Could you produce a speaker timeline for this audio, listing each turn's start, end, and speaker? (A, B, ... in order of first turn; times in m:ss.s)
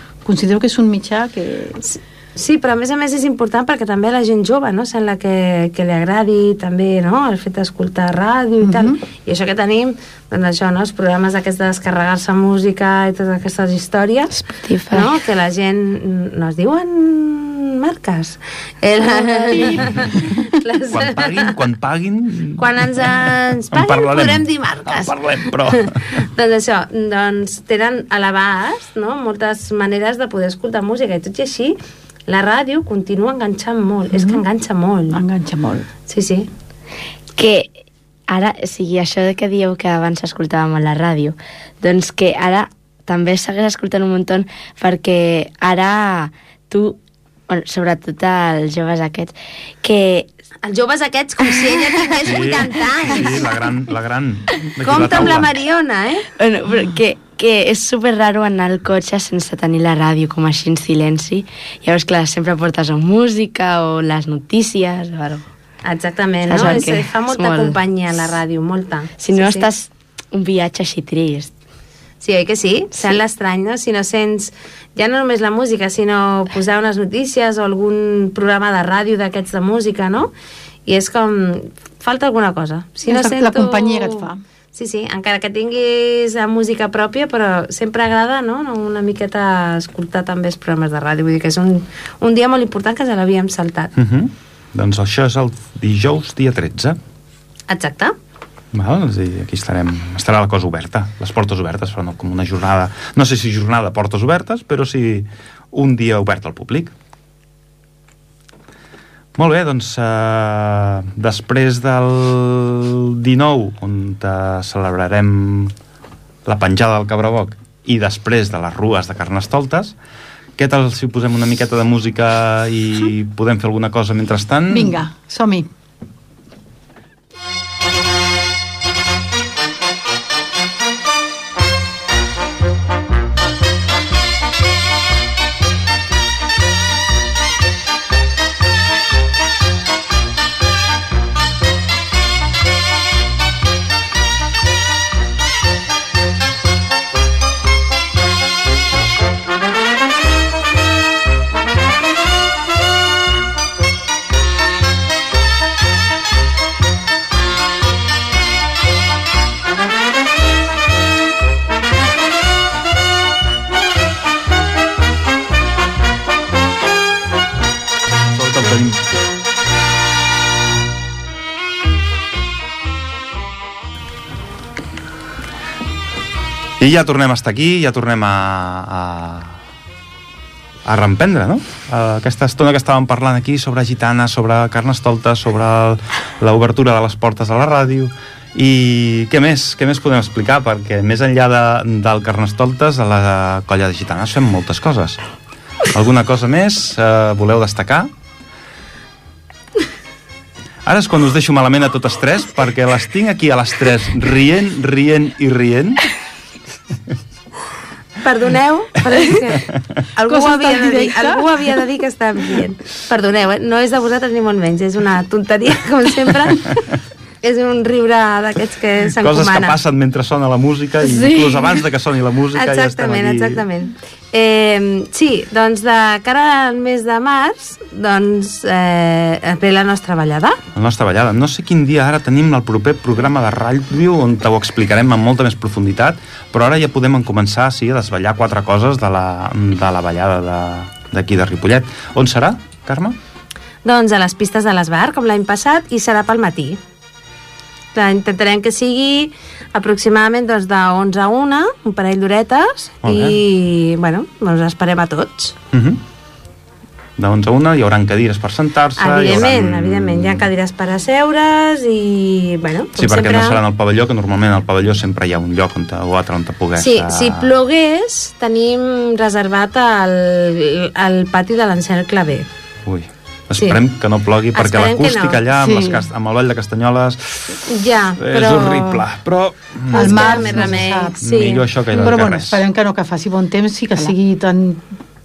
0:00.2-0:01.8 A
0:01.8-0:14.4 B
0:08.6-0:09.0 A
0:14.4-0:15.2 C
0:14.9-0:21.5 B
0:19.2-0:20.0 C
0:19.5-0:19.8 A
0:20.9-0:26.1 D
0:22.6-0:35.2 B
0:34.1-0:34.4 A
0:35.1-0:35.9 A
0:36.1-0:36.5 B
0:37.4-0:37.7 C
0:38.3-0:47.0 C
0:47.5-0:50.3 C
0:50.6-0:53.5 B
0:52.2-0:55.5 D
0:54.8-0:56.3 B
0:56.4-1:05.4 C
1:05.8-1:09.7 B
1:06.5-1:07.8 C
1:09.2-1:11.5 C
1:12.2-1:20.3 B
1:20.8-1:33.9 B
1:23.0-1:24.4 A
1:33.9-1:37.0 D
1:37.7-1:38.1 B
1:38.7-1:46.9 D
1:49.3-1:55.7 D
1:56.4-1:59.9 D
2:00.6-2:05.0 D
2:04.7-2:05.7 A
2:48.4-2:49.1 D
2:56.8-2:59.6 D
3:00.8-3:15.2 D
3:15.8-3:18.1 D
3:20.8-3:26.0 D
3:28.2-3:36.8 B
3:29.7-3:30.0 D
3:30.2-3:31.5 A
3:37.4-3:39.8 B
3:39.2-3:43.6 D
3:41.0-3:41.8 C
3:42.5-3:50.6 B
3:50.7-4:03.2 D
4:03.8-4:06.8 B
4:07.9-4:15.6 B
4:13.0-4:13.4 D
4:15.7-4:16.0 D
4:17.2-4:20.5 D
4:19.0-4:23.6 B
4:22.9-4:27.5 D
4:26.8-4:32.5 B
4:32.8-4:42.6 D
4:34.5-4:35.4 B
4:35.5-4:36.0 A
4:37.6-4:38.8 B
4:38.3-4:39.0 A
4:39.9-4:41.2 A
4:39.9-4:42.2 B
4:42.0-4:44.8 A